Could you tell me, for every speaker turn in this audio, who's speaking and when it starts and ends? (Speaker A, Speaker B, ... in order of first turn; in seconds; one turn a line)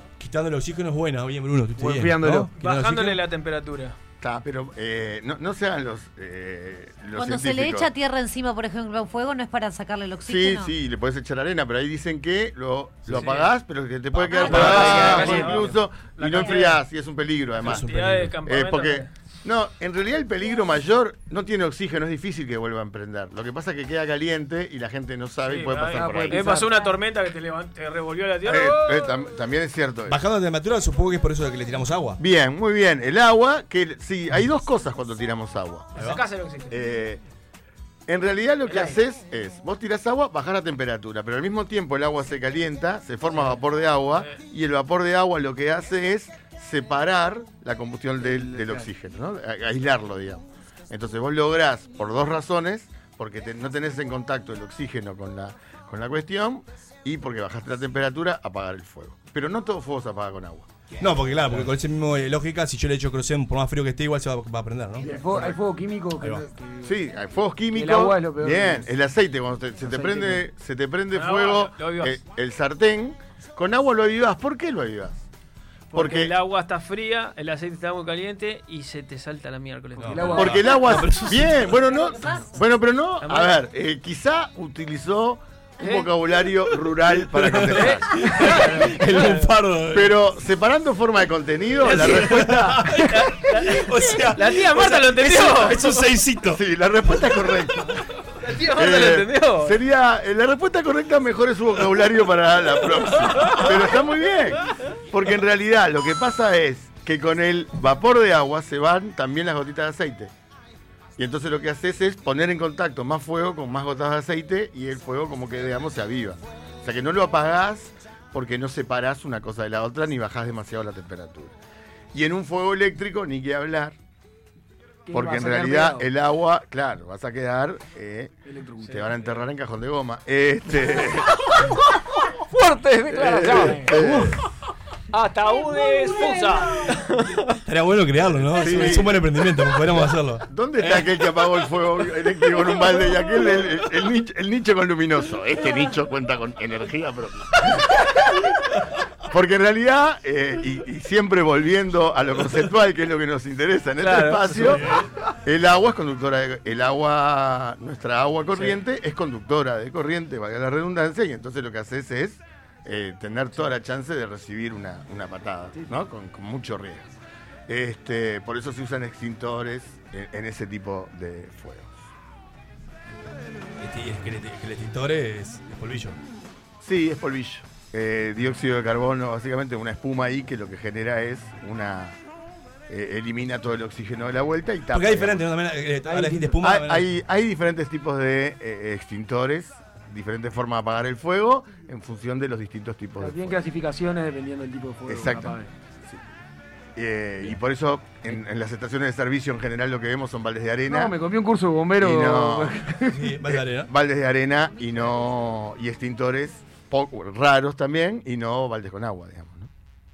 Speaker A: 0.2-3.2
Speaker B: 1.8-2.5
Speaker C: 2.6-4.0
Speaker D: 4.2-7.9
Speaker E: 7.1-10.7
Speaker D: 10.2-17.8
Speaker A: 13.0-13.3
Speaker C: 13.1-13.5
Speaker A: 14.2-15.2
Speaker C: 14.3-16.9
Speaker B: 14.5-15.6
Speaker C: 17.6-19.1
Speaker A: 17.6-18.3
Speaker D: 18.4-26.5
Speaker C: 25.5-29.2
Speaker B: 25.9-26.7
Speaker D: 28.4-30.2
Speaker A: 30.1-32.2
Speaker D: 32.2-36.0
Speaker A: 36.0-36.2
Speaker C: 36.0-36.7
Speaker D: 36.7-37.2
Speaker D: 38.1-60.7
Speaker C: 38.7-39.0
Speaker B: 48.2-48.9
Speaker A: 61.0-65.1
Speaker B: 65.0-66.9
Speaker D: 66.8-75.3
Speaker B: 67.7-68.9
Speaker B: 69.8-70.4
Speaker C: 71.1-72.2
Speaker C: 75.9-80.6
Speaker D: 75.9-76.3
Speaker A: 80.0-81.8
Speaker B: 80.0-80.5
Speaker D: 80.4-88.1
Speaker C: 83.2-83.6
Speaker C: 85.8-86.1
Speaker A: 87.1-90.2
Speaker C: 87.7-89.5
Speaker B: 88.5-89.0
Speaker D: 89.9-92.8
Speaker A: 91.8-96.6
Speaker C: 91.9-92.3
Speaker C: 92.8-96.1
Speaker D: 96.5-97.9
Speaker C: 98.4-99.8
Speaker D: 98.7-104.6
Speaker D: 105.1-110.3
Speaker D: 111.2-121.5
Speaker D: 122.1-123.9
Speaker B: 125.1-126.1
Speaker D: 125.1-128.3
Speaker B: 128.5-129.0
Speaker C: 128.9-129.3
Speaker D: 128.9-131.3
Speaker B: 132.5-134.3
Speaker D: 133.1-134.3
Speaker C: 133.4-133.9
Speaker C: 135.1-137.2
Speaker A: 137.7-141.2
Speaker D: 138.6-139.1
Speaker D: 140.5-147.9
Speaker D: 149.3-154.8
Speaker C: 154.0-154.8
Speaker A: 154.5-155.1
Speaker D: 155.4-167.1
Speaker D: 167.7-172.1
Speaker A: 173.8-176.2
Speaker D: 176.8-182.2
Speaker D: 182.9-185.4
Speaker A: 184.9-187.1
Speaker B: 186.1-186.6
Speaker D: 186.6-193.6
Speaker B: 193.2-195.7
Speaker D: 195.1-196.2
Speaker D: 196.9-201.2
Speaker B: 200.9-203.2
Speaker D: 202.0-202.8
Speaker A: 203.1-203.9
Speaker D: 203.5-209.7